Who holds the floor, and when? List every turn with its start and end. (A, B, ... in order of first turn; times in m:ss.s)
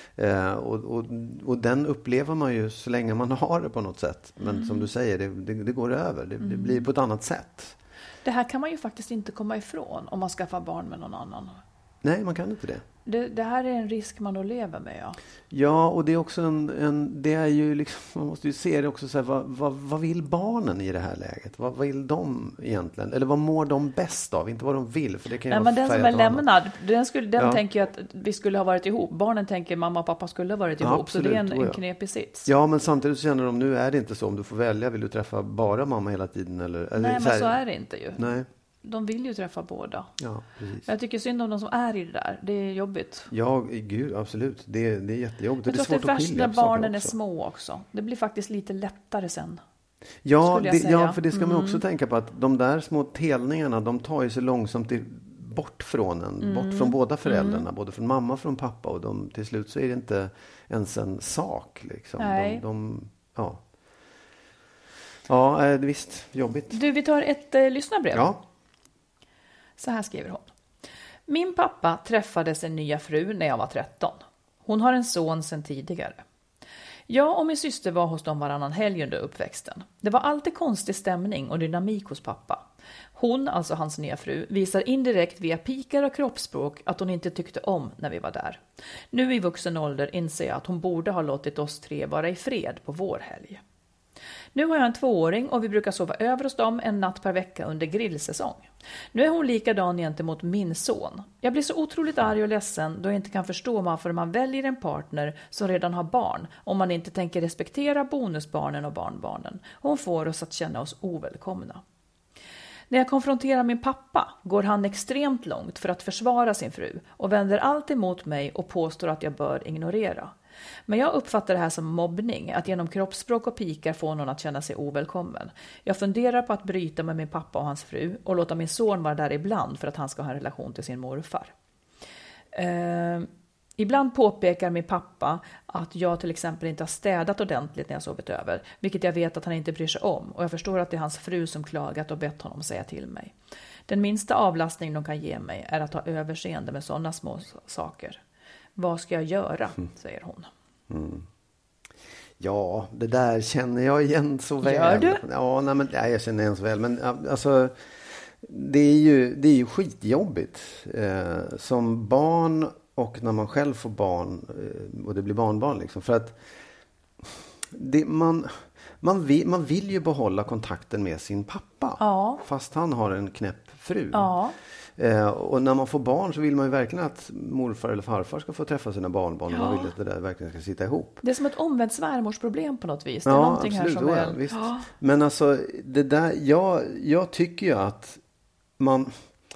0:00.2-0:07.8 A
0:04.4-0:04.8 B
0:06.4-0:06.9 B
0:08.2-0:11.6 B
0:12.0-0:12.8 A
0:13.0-0:15.2 B
0:15.5-0:26.4 A
0:25.5-0:32.5 B
0:27.4-0:27.6 A
0:30.8-0:31.8 A
0:32.4-0:37.6 A
0:37.0-0:38.3 B
0:38.2-0:38.5 A
0:38.8-0:40.1 B
0:40.2-0:40.9 A
0:40.9-0:43.3 B
0:43.3-0:47.1 A
0:45.6-0:49.6 B
0:50.2-1:03.6 A
0:50.4-0:51.8 B
0:56.4-0:57.7 B
1:02.2-1:02.6 B
1:05.3-1:06.8 A
1:06.7-1:08.3 B
1:08.1-1:08.4 A
1:09.8-1:10.5 B
1:11.3-1:16.2 B
1:17.1-1:22.6 B
1:23.2-1:28.6 B
1:29.1-1:33.6 B
1:34.5-1:51.8 B
1:52.9-2:00.3 B
2:00.9-2:11.5 B
2:12.5-2:23.3 B
2:23.9-2:28.2 B
2:28.8-2:30.5 B
2:30.9-2:31.2 A
2:32.4-2:46.4 A
2:34.6-2:35.2 B
2:47.7-2:54.3 A
2:52.0-2:52.4 B
2:54.1-2:54.5 B
2:55.0-3:01.2 A
2:59.5-2:59.9 B
3:01.2-3:04.8 B
3:03.2-3:08.2 A
3:08.8-3:09.2 A